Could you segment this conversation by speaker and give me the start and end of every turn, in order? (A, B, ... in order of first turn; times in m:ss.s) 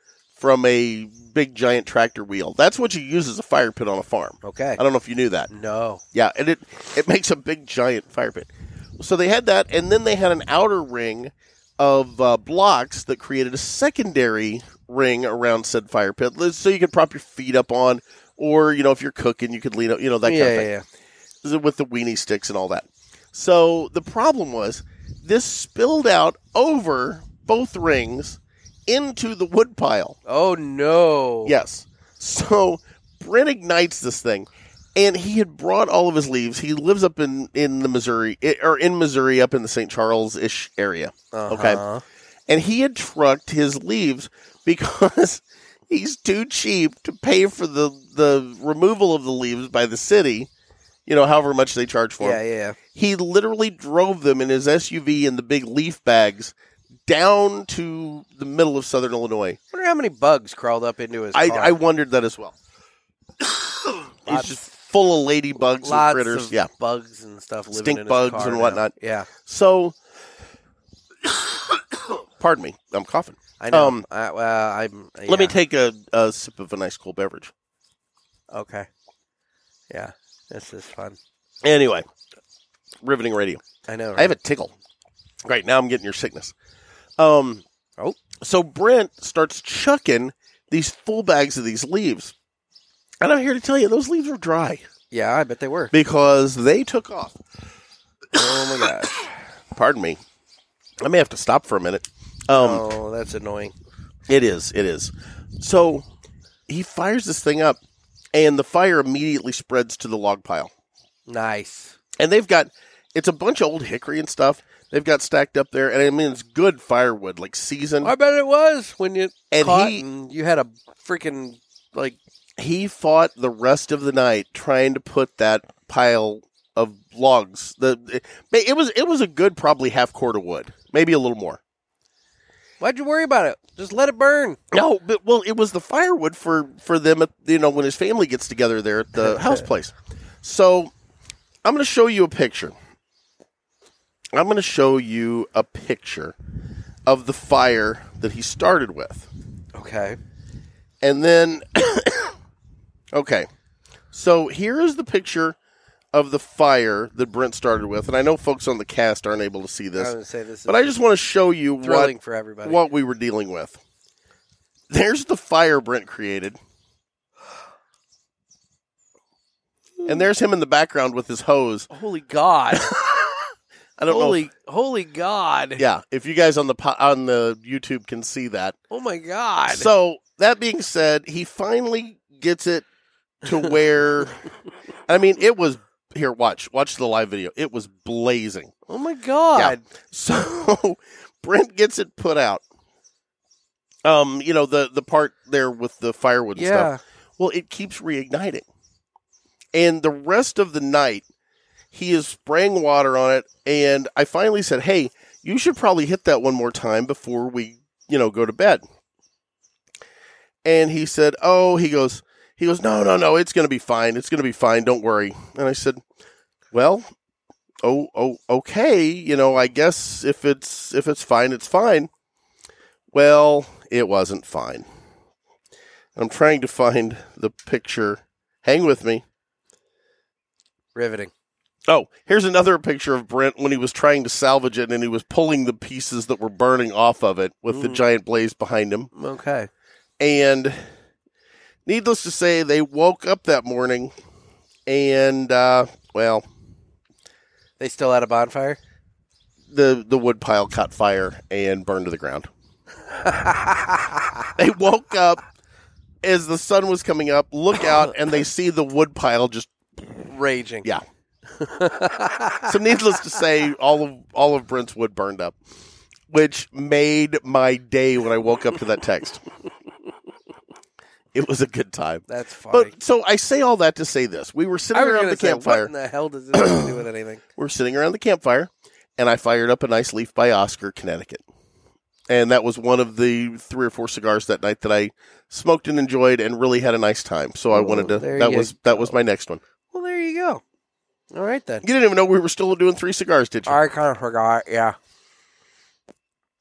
0:00.4-0:05.5 A
0:04.4-0:04.8 B
0:05.5-0:06.0 B
0:06.1-0:20.7 A
0:20.2-0:20.8 B
0:21.4-0:30.2 A
0:30.3-0:31.6 B
0:31.4-0:41.8 A
0:41.3-0:42.0 B
0:42.5-0:50.5 A
0:51.0-0:52.4 A
0:52.2-0:52.8 B
0:52.9-0:56.5 A
0:57.1-0:59.6 A
0:59.7-1:01.8 B
1:01.3-1:02.5 A
1:03.4-1:06.7 A
1:04.3-1:04.7 B
1:05.8-1:09.3 B
1:07.7-1:10.0 A
1:11.2-1:14.0 A
1:13.6-1:15.6 B
1:15.3-1:17.5 A
1:18.5-1:18.9 B
1:19.9-1:21.2 B
1:21.6-1:22.0 A
1:23.0-1:23.6 A
1:23.9-1:24.4 B
1:24.2-1:24.7 A
1:25.4-1:26.5 A
1:27.2-1:27.6 A
1:28.4-1:32.3 A
1:33.2-1:34.8 A
1:35.1-1:35.9 B
1:35.9-1:37.4 A
1:38.4-1:39.2 B
1:38.4-1:38.9 A
1:39.7-1:40.2 A
1:41.0-1:42.9 A
1:42.6-1:43.7 B
1:44.3-1:46.0 A
1:46.7-1:47.8 A
1:48.3-1:50.7 A
1:51.3-1:52.0 B
1:52.2-1:58.1 A
1:58.0-2:02.2 B
1:59.5-2:00.0 A
2:02.6-2:11.6 A
2:12.8-2:14.6 B
2:14.7-2:20.9 A
2:19.2-2:19.7 B
2:21.6-2:22.7 A
2:24.3-2:26.4 A
2:27.0-2:29.3 A
2:29.8-2:30.2 B
2:31.0-2:32.4 A
2:33.1-2:33.5 A
2:34.1-2:35.6 A
2:36.1-2:40.1 A
2:40.0-2:41.0 B
2:40.7-2:43.8 A
2:41.8-2:42.8 B
2:44.9-2:46.6 A
2:50.0-2:50.2 B
2:50.0-2:51.9 A
2:51.9-2:52.9 B
2:52.7-2:53.4 A
2:54.0-2:54.5 A
2:54.1-2:55.8 B
2:55.8-2:58.8 A
2:58.9-2:59.9 B
2:59.7-3:02.8 A
3:03.4-3:04.4 A
3:05.1-3:08.7 A
3:08.9-3:09.8 B
3:09.6-3:12.6 A
3:14.0-3:18.6 A
3:16.6-3:17.0 B
3:19.7-3:21.2 A
3:21.9-3:28.8 A
3:30.6-3:36.0 A
3:36.7-3:37.1 A
3:37.8-3:42.1 A
3:43.1-3:44.9 A
3:46.2-3:49.2 A
3:51.0-3:51.3 B
3:51.9-3:59.1 A
3:57.7-3:58.0 B
3:59.1-3:59.7 B
4:00.2-4:00.8 A
4:01.9-4:04.1 A
4:04.9-4:06.4 A
4:07.8-4:08.8 B
4:09.7-4:12.5 A
4:13.2-4:14.3 B
4:14.6-4:15.4 A
4:16.2-4:19.7 A
4:20.2-4:20.9 B
4:21.6-4:22.7 B
4:22.7-4:25.6 A
4:26.3-4:29.4 A
4:31.3-4:35.9 A
4:32.3-4:32.9 B
4:34.9-4:37.4 B
4:36.5-4:37.0 A
4:37.6-4:41.4 A
4:42.3-4:49.6 A
4:47.7-4:49.2 B
4:49.9-4:50.6 B
4:51.3-4:51.9 B
4:51.8-4:53.8 A
4:53.7-4:55.0 B